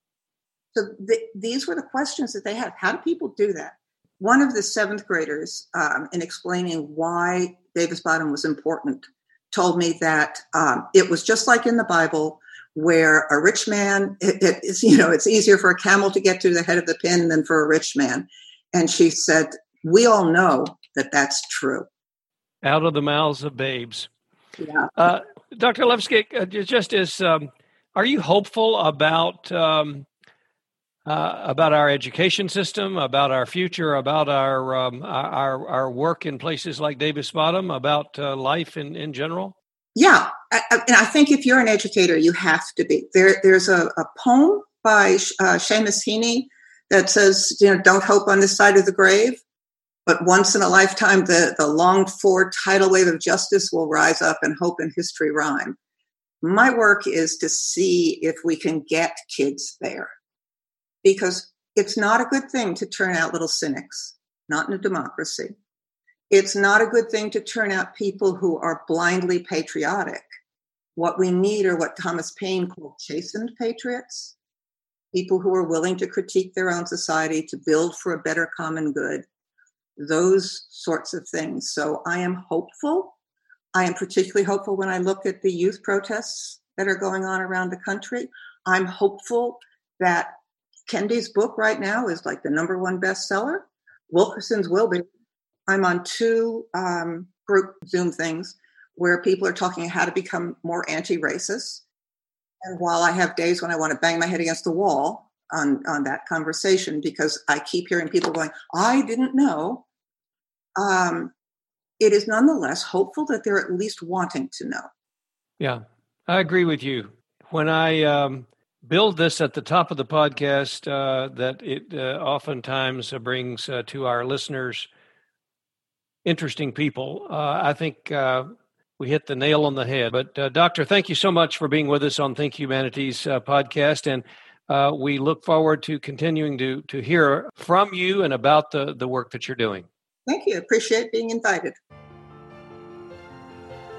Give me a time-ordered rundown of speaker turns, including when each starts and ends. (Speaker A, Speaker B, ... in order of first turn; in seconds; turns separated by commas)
Speaker A: 0.7-21.9, Speaker B: 22.6-24.1, Speaker A: 24.6-24.9, Speaker B: 25.0-30.1, Speaker B: 31.1-39.5, Speaker A: 40.0-49.4, Speaker A: 50.1-55.8, Speaker A: 56.4-60.1, Speaker A: 61.0-65.5, Speaker A: 66.3-70.3, Speaker A: 71.0-74.3, Speaker A: 75.1-79.2, Speaker A: 80.0-83.1, Speaker A: 83.7-90.3, Speaker A: 90.9-95.1, Speaker A: 95.7-101.8, Speaker A: 102.6-109.8, Speaker A: 110.8-111.3, Speaker A: 112.0-114.9, Speaker B: 115.6-124.9, Speaker B: 126.2-139.9, Speaker A: 140.3-141.8